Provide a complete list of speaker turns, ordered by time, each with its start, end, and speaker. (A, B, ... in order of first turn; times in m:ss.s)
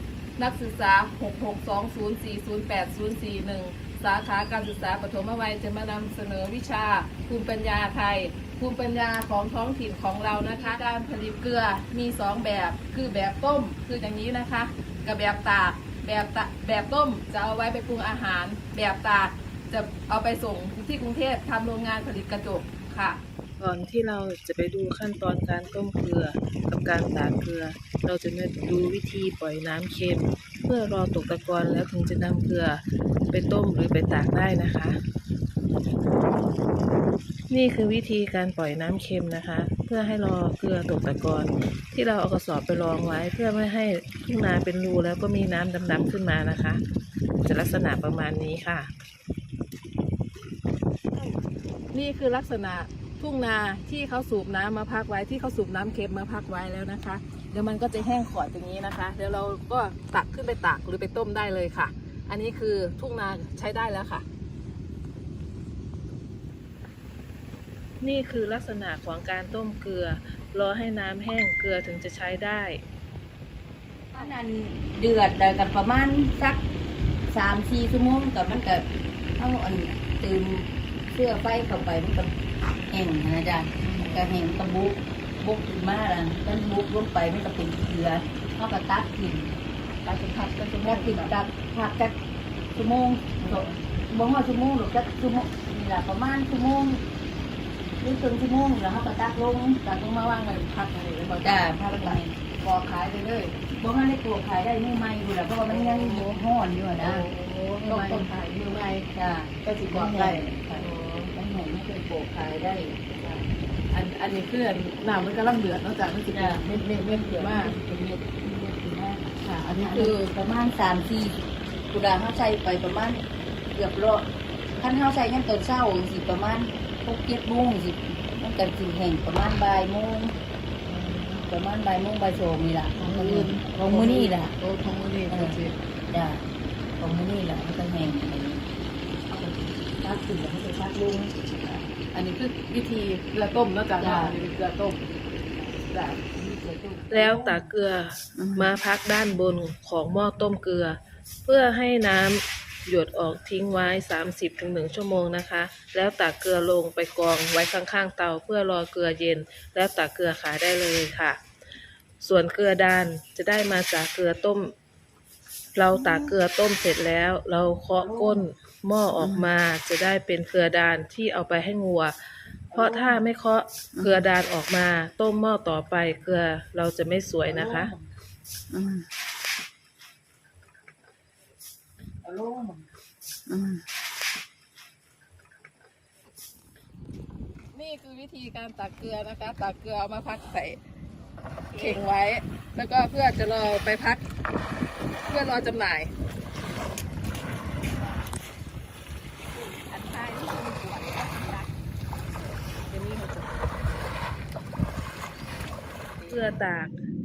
0:00.4-0:23.2 A
0:23.6-0:35.0 B
0:37.5-0:46.8 B
0:47.4-0:48.9 B
0:51.9-1:04.2 A
1:08.0-1:12.8 B
1:14.1-1:16.6 C
1:17.3-1:22.3 C
1:22.9-1:29.5 C
1:23.8-1:24.3 A
1:30.0-1:31.3 A
1:30.8-1:32.2 C
1:32.7-1:37.0 C
1:33.4-1:33.8 A
1:38.0-1:39.8 C
1:39.8-1:43.6 A
1:41.4-1:42.3 C
1:43.7-1:47.3 C
1:45.7-1:46.4 A
1:47.0-1:49.1 A
1:47.8-1:48.3 C
1:49.1-1:53.1 C
1:49.6-1:51.3 A
1:53.2-1:57.8 A
1:56.3-2:03.2 C
1:59.4-2:00.3 A
2:03.7-2:10.3 C
2:10.9-2:11.4 A
2:11.4-2:14.5 C
2:13.0-2:15.7 A
2:15.3-2:15.6 C
2:16.1-2:16.4 C
2:17.0-2:18.6 C
2:20.0-2:21.3 C
2:21.6-2:27.1 A
2:24.0-2:24.4 C
2:26.5-2:27.7 C
2:27.1-2:41.4 B
2:28.4-2:28.7 C
2:42.2-2:44.7 B
2:45.7-2:52.1 B
2:45.9-2:46.3 C
2:48.0-2:48.4 C
2:49.2-2:49.5 C
2:52.7-2:57.9 B
2:52.7-2:53.2 C
2:54.0-2:54.3 C
2:57.4-2:58.0 C
2:58.7-2:59.1 C
3:02.2-3:02.8 C
3:03.5-3:03.8 C
3:07.7-3:10.8 A
3:11.7-3:12.0 C
3:11.7-3:14.2 A
3:15.3-3:16.1 A
3:19.5-3:21.7 A
3:22.7-3:23.6 A
3:26.2-3:26.6 A
3:26.3-3:27.0 B